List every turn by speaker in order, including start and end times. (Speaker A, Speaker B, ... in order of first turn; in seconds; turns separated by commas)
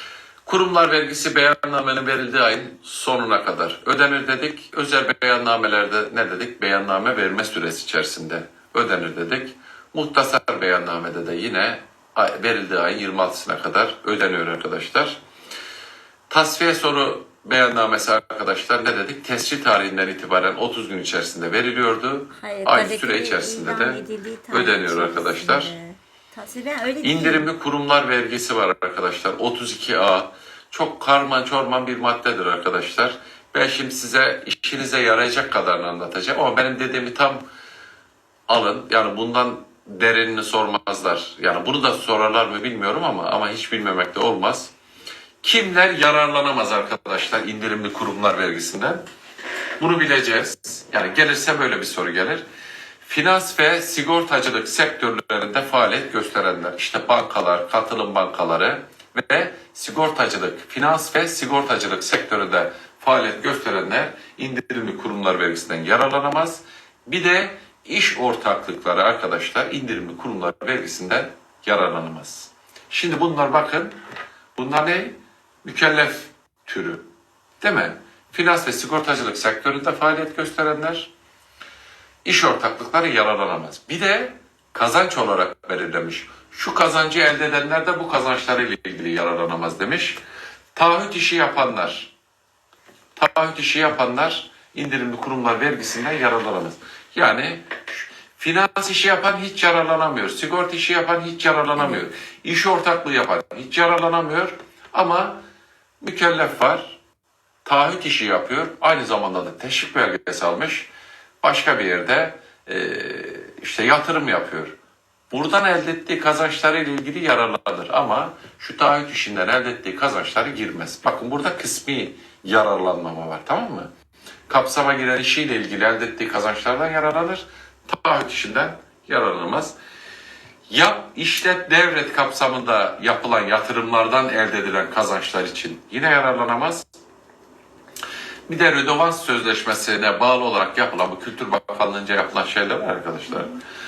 Speaker A: 0.5-15.2, Speaker A: 16.3-25.7, Speaker B: 22.3-27.5, Speaker A: 27.0-37.5, Speaker A: 38.5-44.7, Speaker A: 45.4-49.0, Speaker A: 49.8-52.4, Speaker A: 53.0-73.9, Speaker A: 74.6-77.1, Speaker A: 77.6-81.1, Speaker A: 82.2-90.2, Speaker A: 90.8-92.1, Speaker A: 93.2-105.4, Speaker B: 101.8-102.0, Speaker A: 106.0-107.0, Speaker A: 107.7-110.9, Speaker A: 111.4-114.8, Speaker A: 115.3-123.9, Speaker A: 124.5-129.8, Speaker A: 130.7-136.8, Speaker A: 138.5-143.5, Speaker B: 143.3-143.6